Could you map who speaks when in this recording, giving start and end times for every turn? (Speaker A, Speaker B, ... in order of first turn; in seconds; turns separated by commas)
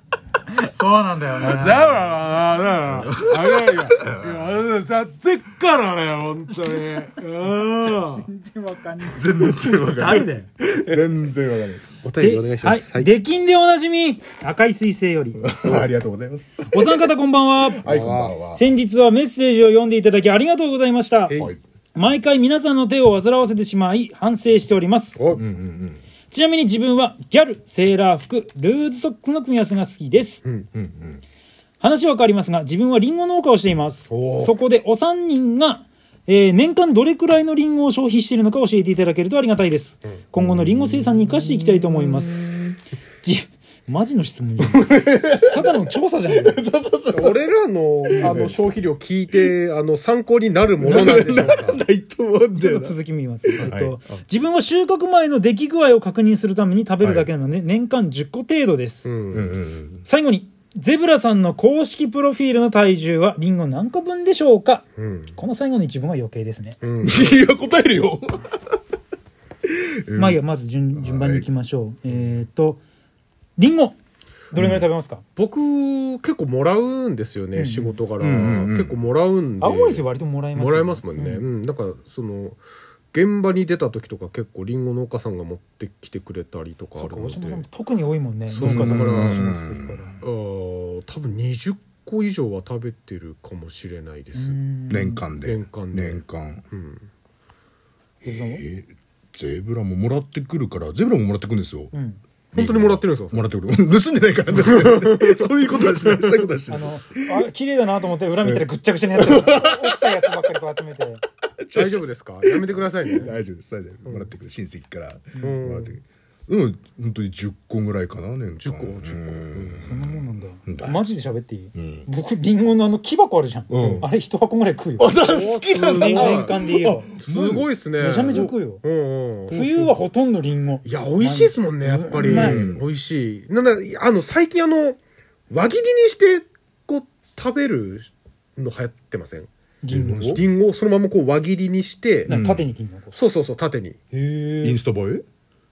Speaker A: 0.6-1.9, Speaker B: 1.4-8.3, Speaker C: 2.9-4.5, Speaker A: 6.7-7.1, Speaker A: 8.2-10.5, Speaker C: 9.0-12.0, Speaker B: 12.0-13.1, Speaker A: 12.2-15.5, Speaker C: 15.4-16.9, Speaker A: 16.7-17.9, Speaker C: 17.7-18.6, Speaker B: 17.8-18.4, Speaker A: 18.5-21.4, Speaker B: 21.3-21.5, Speaker A: 21.9-25.2, Speaker B: 25.2-25.4, Speaker C: 25.3-26.0, Speaker A: 26.3-30.4, Speaker C: 30.8-31.2, Speaker A: 31.8-46.6, Speaker B: 34.1-34.5, Speaker C: 40.4-42.7, Speaker C: 44.6-45.7, Speaker C: 46.4-47.5, Speaker B: 47.1-51.8, Speaker C: 48.1-48.6, Speaker C: 50.8-53.0, Speaker A: 50.9-51.6, Speaker A: 52.6-59.1, Speaker C: 53.5-54.0, Speaker C: 57.0-57.3, Speaker B: 59.0-59.5, Speaker C: 59.3-60.0, Speaker A: 60.0-64.8, Speaker B: 65.0-65.3, Speaker A: 65.4-66.8, Speaker B: 66.8-67.4, Speaker C: 67.0-68.5, Speaker C: 69.7-70.4, Speaker A: 70.1-72.8, Speaker C: 71.0-71.5, Speaker A: 73.6-74.0, Speaker A: 74.5-75.2, Speaker C: 74.6-74.8, Speaker B: 75.4-82.6, Speaker A: 77.5-78.0, Speaker C: 78.2-79.0, Speaker A: 79.6-81.5, Speaker B: 83.1-87.7, Speaker A: 87.0-90.2, Speaker B: 88.5-89.5, Speaker C: 88.6-90.1, Speaker B: 90.2-94.6, Speaker A: 94.3-95.2, Speaker C: 94.9-96.6, Speaker B: 95.4-97.0, Speaker A: 98.2-98.7, Speaker C: 98.3-101.9, Speaker A: 101.9-102.2, Speaker B: 102.5-103.5, Speaker C: 102.5-107.2, Speaker B: 104.5-106.5, Speaker A: 106.7-111.2, Speaker C: 108.4-110.3, Speaker C: 111.6-121.0, Speaker B: 111.7-113.4, Speaker B: 114.0-114.3, Speaker B: 115.4-116.0, Speaker B: 118.6-119.9, Speaker A: 119.8-125.2, Speaker C: 121.8-122.1, Speaker C: 123.7-124.1, Speaker C: 125.0-127.7, Speaker B: 125.2-126.6, Speaker A: 125.8-127.1, Speaker B: 127.2-130.0, Speaker A: 128.0-128.8, Speaker C: 128.3-128.5, Speaker A: 129.5-132.6, Speaker B: 130.8-135.0, Speaker C: 132.2-132.8, Speaker B: 135.5-139.5, Speaker A: 139.8-140.4, Speaker C: 139.9-140.4, Speaker B: 140.3-142.3, Speaker A: 142.3-143.2, Speaker C: 142.3-142.7, Speaker B: 143.1-144.0, Speaker A: 144.1-144.8, Speaker C: 144.6-145.2